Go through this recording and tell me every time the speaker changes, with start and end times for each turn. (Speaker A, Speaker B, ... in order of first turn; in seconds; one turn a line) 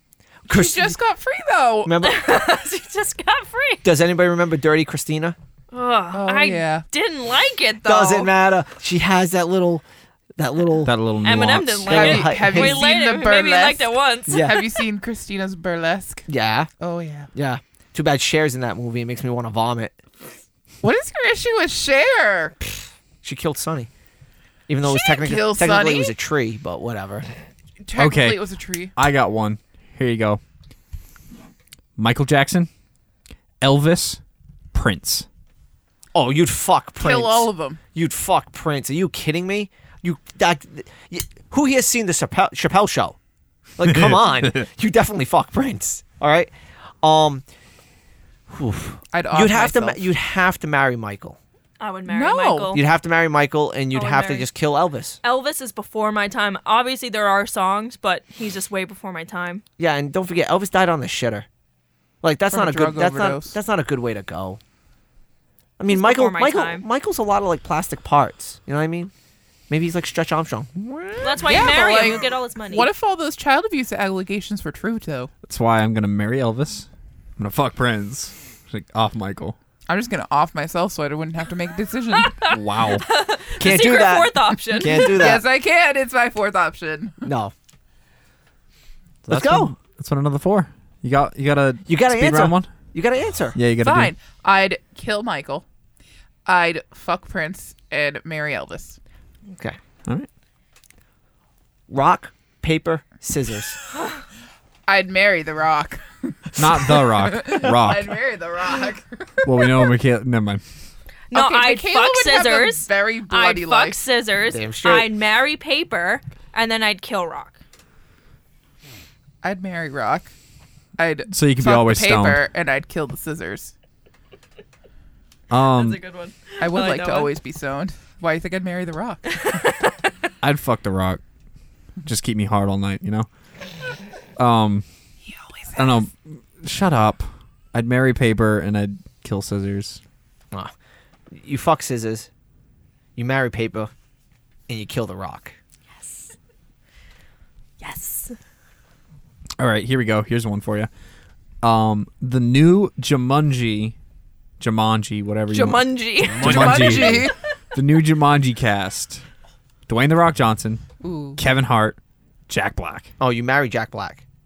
Speaker A: 0.5-1.0
Speaker B: 0.5-2.0
Speaker A: 1.8-2.5
Speaker C: 2.0-3.9
Speaker A: 3.8-5.4
Speaker C: 5.7-8.3
Speaker B: 6.1-6.9
Speaker A: 7.8-9.8
Speaker A: 10.4-10.9
Speaker D: 10.8-12.0
Speaker C: 11.2-14.5
Speaker A: 11.9-12.8
Speaker B: 11.9-16.3
Speaker A: 14.3-14.6
Speaker A: 16.3-16.7
Speaker B: 16.8-17.3
Speaker A: 17.3-20.0
Speaker B: 20.8-22.7
Speaker A: 23.2-23.9
Speaker A: 24.7-27.3
Speaker B: 24.9-26.1
Speaker B: 27.8-28.9
Speaker D: 28.0-30.4
Speaker D: 32.0-32.7
Speaker D: 33.6-34.2
Speaker D: 34.7-35.3
Speaker A: 36.1-43.2
Speaker B: 37.0-37.8
Speaker A: 43.8-47.4
Speaker A: 48.5-51.4
Speaker B: 49.1-50.0
Speaker C: 51.8-52.8
Speaker B: 52.1-52.8
Speaker A: 52.7-55.2
Speaker C: 53.9-54.5
Speaker C: 55.2-59.6
Speaker A: 59.8-61.5
Speaker A: 62.2-64.6
Speaker B: 62.5-63.6
Speaker A: 65.8-69.1
Speaker C: 65.9-66.8
Speaker A: 69.7-71.7
Speaker C: 71.2-72.9
Speaker B: 71.5-75.3
Speaker D: 75.4-79.6
Speaker B: 79.9-82.5
Speaker C: 82.2-85.2
Speaker D: 82.4-83.0
Speaker A: 83.6-85.4
Speaker B: 84.8-87.2
Speaker A: 87.2-87.5
Speaker D: 89.2-92.7
Speaker A: 89.3-89.7
Speaker A: 91.9-93.6
Speaker D: 93.5-94.1
Speaker B: 93.8-95.7
Speaker B: 96.5-99.0
Speaker A: 99.5-99.8
Speaker A: 101.9-103.8
Speaker B: 104.9-109.9
Speaker D: 106.6-108.2
Speaker D: 109.4-110.6
Speaker C: 111.3-117.6
Speaker B: 111.3-114.0
Speaker A: 114.5-115.1
Speaker B: 119.4-120.3
Speaker B: 121.0-123.7
Speaker D: 121.3-122.4
Speaker D: 125.5-126.0
Speaker C: 125.7-127.3
Speaker B: 126.6-129.4
Speaker C: 129.3-130.3
Speaker D: 130.4-131.2
Speaker D: 132.1-133.3
Speaker D: 134.4-134.9
Speaker B: 135.3-135.9
Speaker D: 135.8-140.0
Speaker A: 141.3-142.3
Speaker A: 143.2-143.9
Speaker A: 144.7-145.6
Speaker C: 146.0-146.3
Speaker C: 147.8-148.4
Speaker D: 149.6-150.9
Speaker D: 151.6-153.9
Speaker D: 154.6-159.2
Speaker C: 155.5-157.4
Speaker A: 156.3-157.3
Speaker B: 156.4-157.3
Speaker D: 159.9-160.8
Speaker B: 161.0-161.4
Speaker D: 161.4-162.0
Speaker D: 162.5-163.1
Speaker A: 163.2-164.2